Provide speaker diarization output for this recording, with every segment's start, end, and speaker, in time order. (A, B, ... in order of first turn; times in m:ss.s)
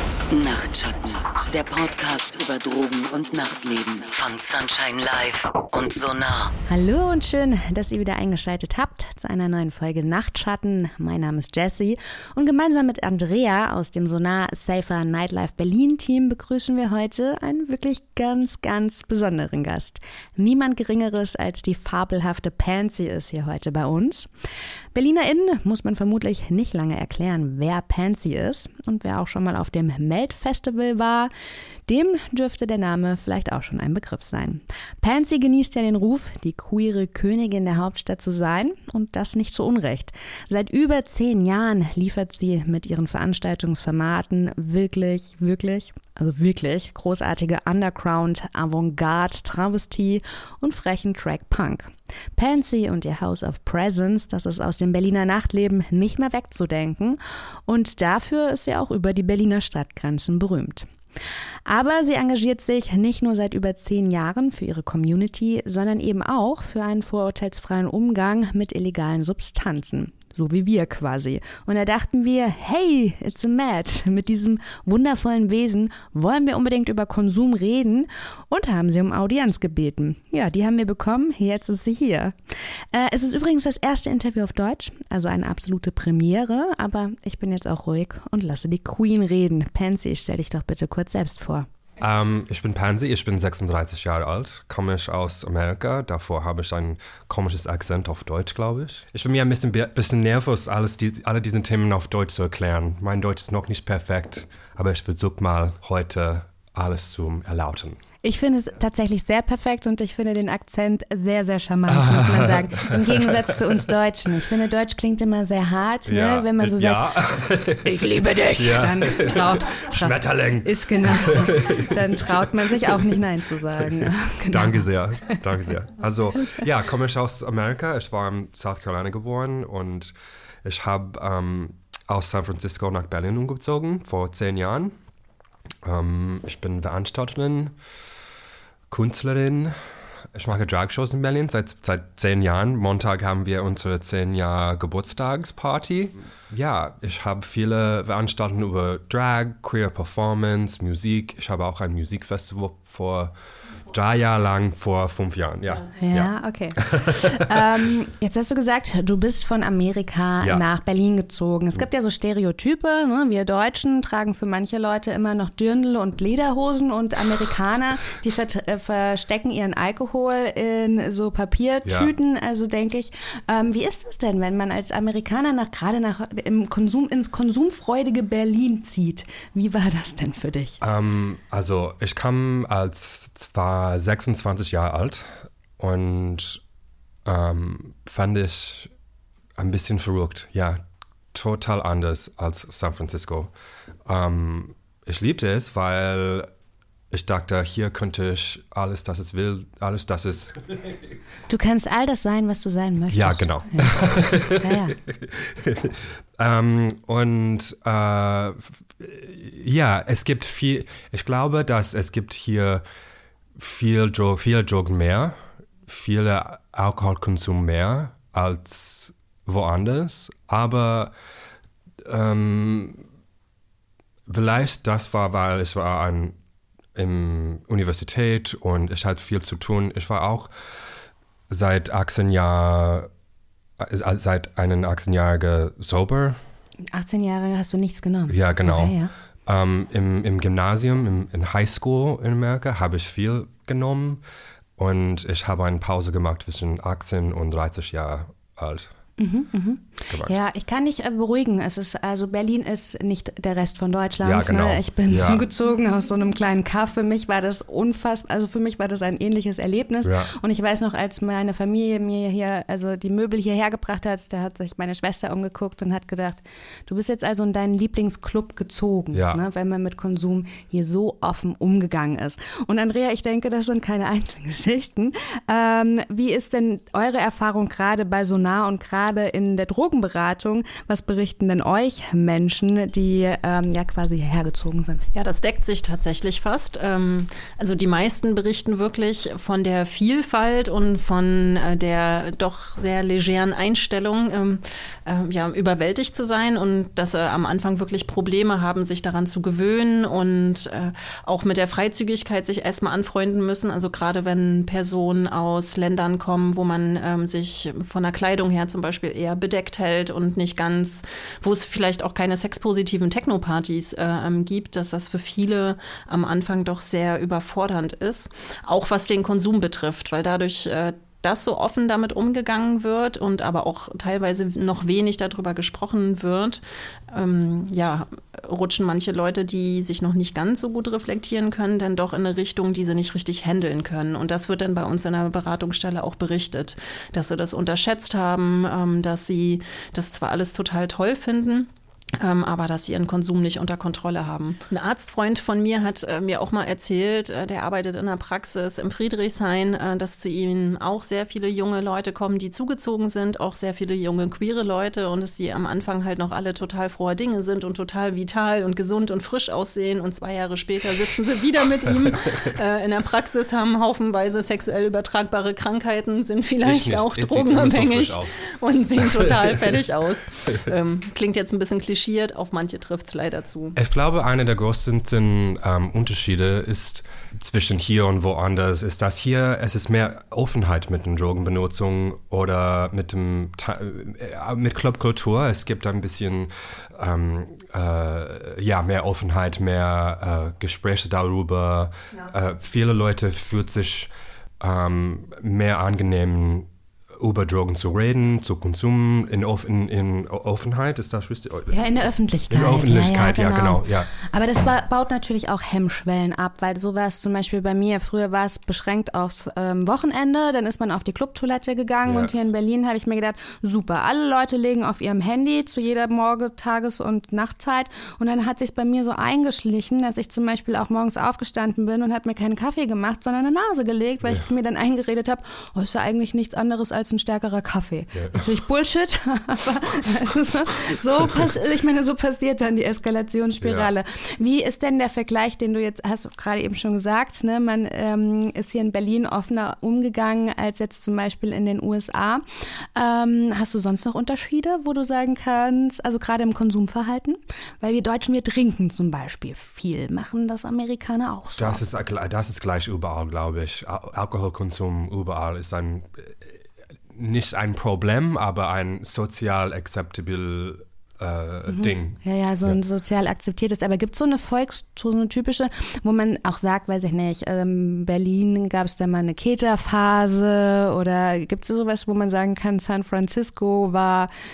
0:00.3-0:06.5 A
0:06.7-0:24.3 B
0:24.9-0:31.3 B
0:31.9-1:00.9 B
1:01.7-1:22.3 B
1:22.9-1:31.7 B
1:32.0-1:48.0 C
1:48.2-1:57.1 B
1:51.9-1:53.8 C
1:56.1-2:03.1 C
1:57.8-2:05.4 B
2:03.8-2:10.1 C
2:10.6-2:14.9 C
2:15.8-2:17.8 C
2:18.9-2:19.7 C
2:20.3-2:33.3 C
2:33.9-2:37.9 C
2:36.0-3:00.8 B
2:51.8-2:52.1 C
3:00.8-3:06.6 C
3:07.2-3:08.9 C
3:09.6-3:10.8 C
3:11.3-3:13.5 C
3:14.1-3:16.5 C
3:17.1-3:20.6 C
3:21.5-3:25.0 B
3:23.1-3:32.8 C
3:33.6-3:35.4 C
3:35.9-3:41.1 C
3:42.0-3:43.0 C
3:44.3-3:46.4 C
3:47.0-3:50.5 C
3:51.5-3:53.1 C
3:53.8-3:56.4 C
3:56.9-3:59.1 B
3:58.3-4:04.2 C
4:04.8-4:08.9 C
4:09.2-4:45.0 B
4:10.1-4:10.4 C
4:14.2-4:15.4 C
4:20.0-4:20.3 C
4:29.1-4:29.4 C
4:45.1-6:13.8 D
6:06.6-6:08.4 C
6:09.0-6:09.8 C
6:13.8-6:41.9 C
6:41.7-7:22.4 B
6:42.5-6:44.1 C
6:52.1-6:52.3 C
7:08.1-7:08.4 C
7:13.6-7:13.9 C
7:23.0-7:31.8 B
7:31.6-7:36.6 C
7:37.1-7:42.8 C
7:41.7-7:54.3 B